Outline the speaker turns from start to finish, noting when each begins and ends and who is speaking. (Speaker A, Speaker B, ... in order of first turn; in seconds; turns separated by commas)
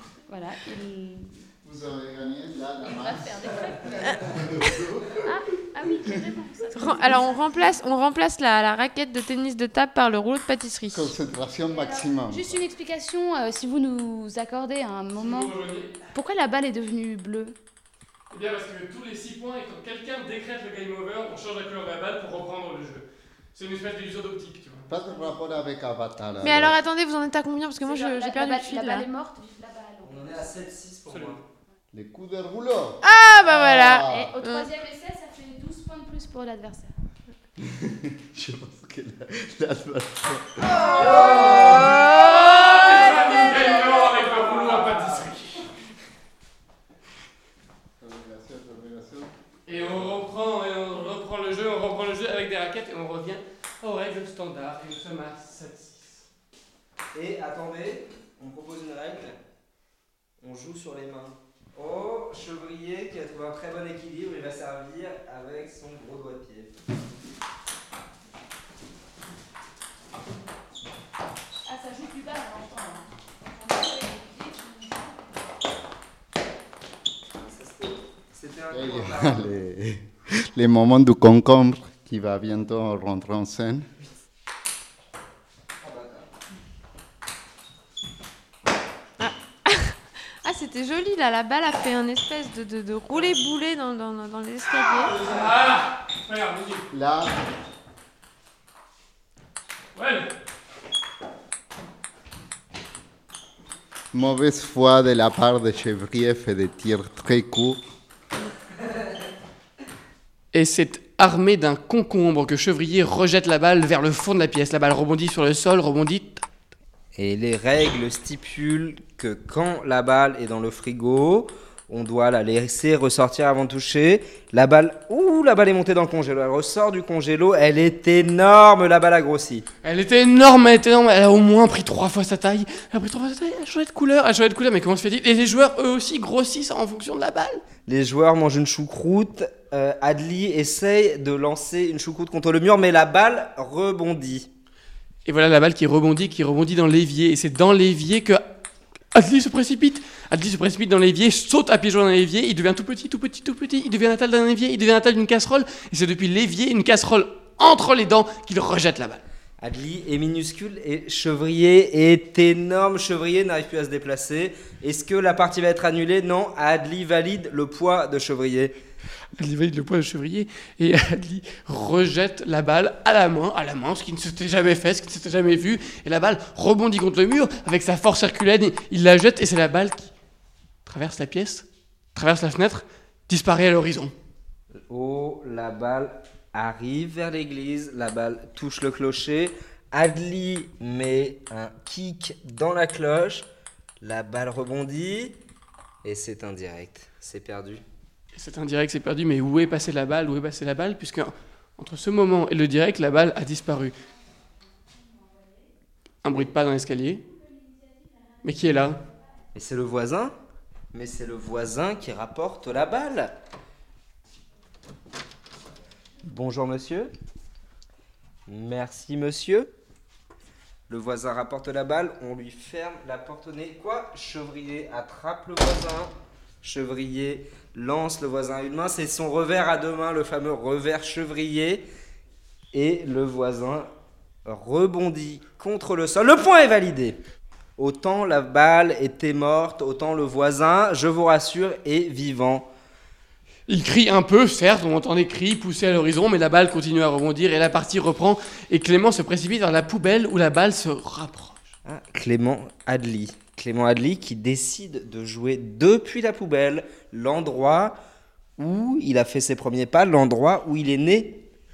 Speaker A: 0.3-1.4, Speaker B: 1.6-5.2, Speaker A: 2.8-4.2, Speaker A: 5.1-7.7, Speaker B: 5.9-6.2, Speaker C: 6.7-11.1, Speaker B: 10.9-12.6, Speaker A: 11.7-15.5, Speaker D: 15.1-16.1, Speaker A: 16.1-17.5, Speaker D: 18.3-24.9, Speaker B: 24.9-26.8, Speaker A: 25.0-25.3, Speaker C: 26.4-29.1, Speaker A: 27.8-30.3, Speaker E: 30.0-31.4, Speaker D: 31.1-31.4, Speaker B: 31.9-34.3, Speaker C: 33.0-34.7, Speaker A: 34.1-36.9, Speaker B: 37.6-41.7, Speaker E: 40.8-42.0, Speaker C: 41.6-42.0, Speaker D: 41.9-45.7, Speaker B: 48.0-49.3, Speaker D: 49.6-56.2, Speaker E: 49.7-50.2, Speaker E: 57.1-59.4, Speaker E: 60.4-66.8, Speaker A: 71.6-75.3, Speaker E: 77.3-79.5, Speaker B: 78.7-83.8, Speaker E: 85.8-86.3, Speaker C: 89.2-95.1, Speaker E: 95.0-95.4, Speaker D: 95.1-96.9, Speaker B: 96.9-97.4, Speaker D: 99.9-100.3, Speaker B: 104.1-107.8, Speaker D: 110.5-116.4, Speaker E: 117.1-129.7, Speaker D: 129.8-137.6, Speaker E: 137.9-144.5, Speaker D: 145.2-148.4, Speaker D: 149.1-159.2, Speaker E: 159.6-168.8, Speaker D: 169.3-180.1, Speaker D: 180.8-184.1, Speaker E: 184.9-193.5, Speaker E: 194.0-195.4, Speaker E: 196.0-197.8, Speaker D: 198.3-203.9, Speaker D: 206.2-207.2, Speaker D: 208.4-209.0, Speaker E: 209.5-210.3, Speaker E: 210.9-213.4, Speaker E: 216.2-217.1, Speaker E: 218.5-219.7, Speaker E: 220.9-231.8, Speaker E: 232.7-233.9, Speaker E: 234.4-237.2, Speaker E: 237.8-242.7, Speaker D: 243.7-251.6, Speaker E: 251.8-258.0, Speaker E: 258.6-261.4